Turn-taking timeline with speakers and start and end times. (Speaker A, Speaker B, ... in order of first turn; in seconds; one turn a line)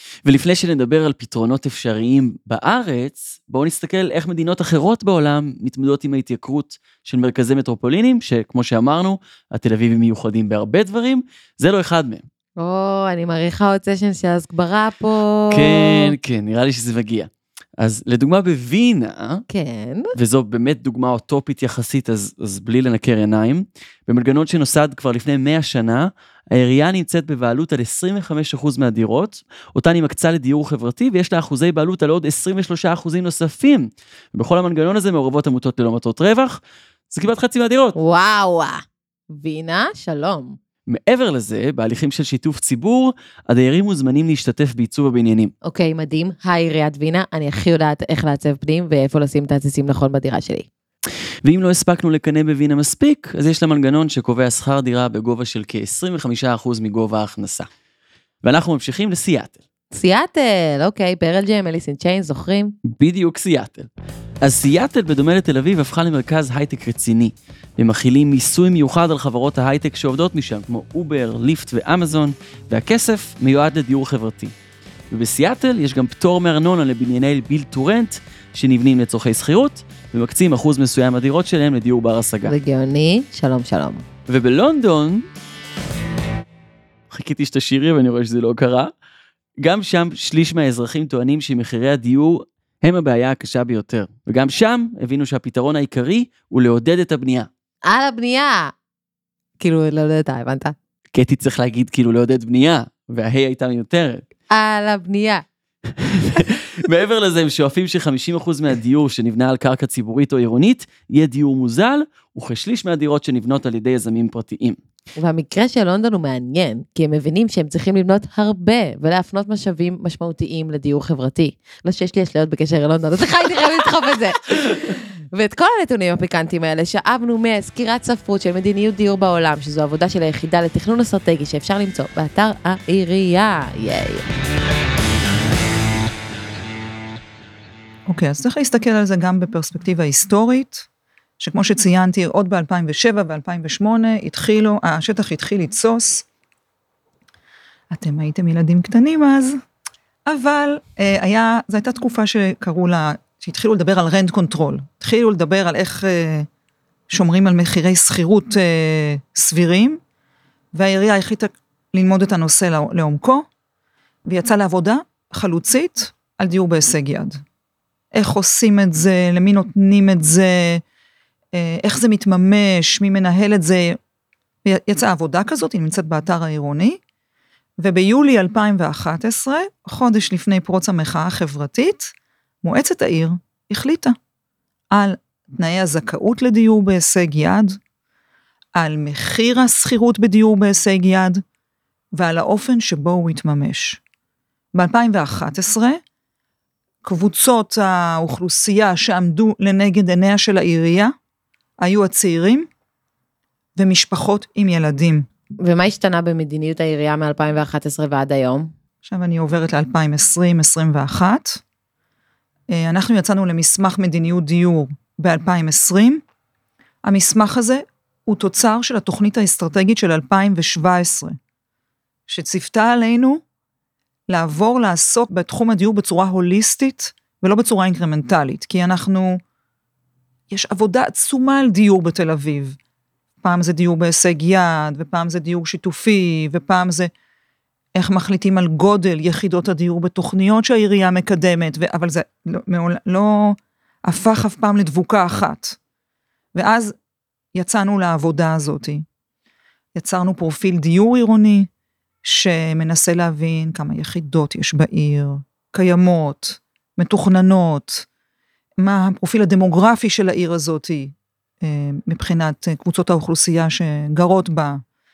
Speaker A: 0.2-12.2
Speaker B: 12.6-16.1
Speaker A: 15.5-19.4
Speaker B: 19.5-20.1
Speaker A: 20.1-36.6
Speaker A: 37.1-38.0
Speaker B: 38.0-40.6
Speaker A: 40.9-45.5
Speaker B: 45.6-50.7
Speaker A: 51.4-57.7
Speaker A: 58.4-59.6
Speaker B: 59.9-62.8
Speaker A: 62.9-63.9
Speaker A: 64.4-74.5
Speaker A: 75.1-82.5
Speaker B: 82.5-84.0
Speaker A: 84.3-85.3
Speaker A: 87.1-88.9
Speaker A: 89.6-97.5
Speaker B: 97.9-98.7
Speaker B: 99.6-100.8
Speaker A: 101.1-104.3
Speaker B: 104.5-105.4
Speaker A: 106.0-114.8
Speaker B: 115.2-134.3
Speaker C: 138.1-140.9
Speaker C: 141.4-146.2
Speaker C: 147.9-149.6
Speaker C: 150.3-156.5
Speaker C: 157.1-160.0
Speaker C: 160.7-163.5
Speaker C: 164.3-167.4
Speaker C: 168.1-170.8
Speaker C: 171.6-174.0
Speaker C: 174.7-177.0
Speaker C: 177.8-184.2
Speaker C: 184.9-187.8
Speaker C: 188.8-191.4
Speaker C: 192.2-194.0
Speaker C: 194.8-196.0
Speaker C: 197.0-201.1
Speaker C: 201.8-202.7
Speaker C: 203.8-205.3
Speaker B: 205.6-208.7
Speaker C: 209.0-211.6
Speaker C: 212.7-216.2
Speaker C: 217.0-221.4
Speaker C: 222.3-223.4
Speaker C: 224.3-229.4
Speaker C: 230.5-232.8
Speaker C: 233.4-237.1
Speaker C: 238.0-245.8
Speaker C: 246.6-246.9
Speaker C: 247.6-249.1
Speaker C: 249.9-251.7
Speaker C: 252.2-258.1
Speaker C: 258.8-264.8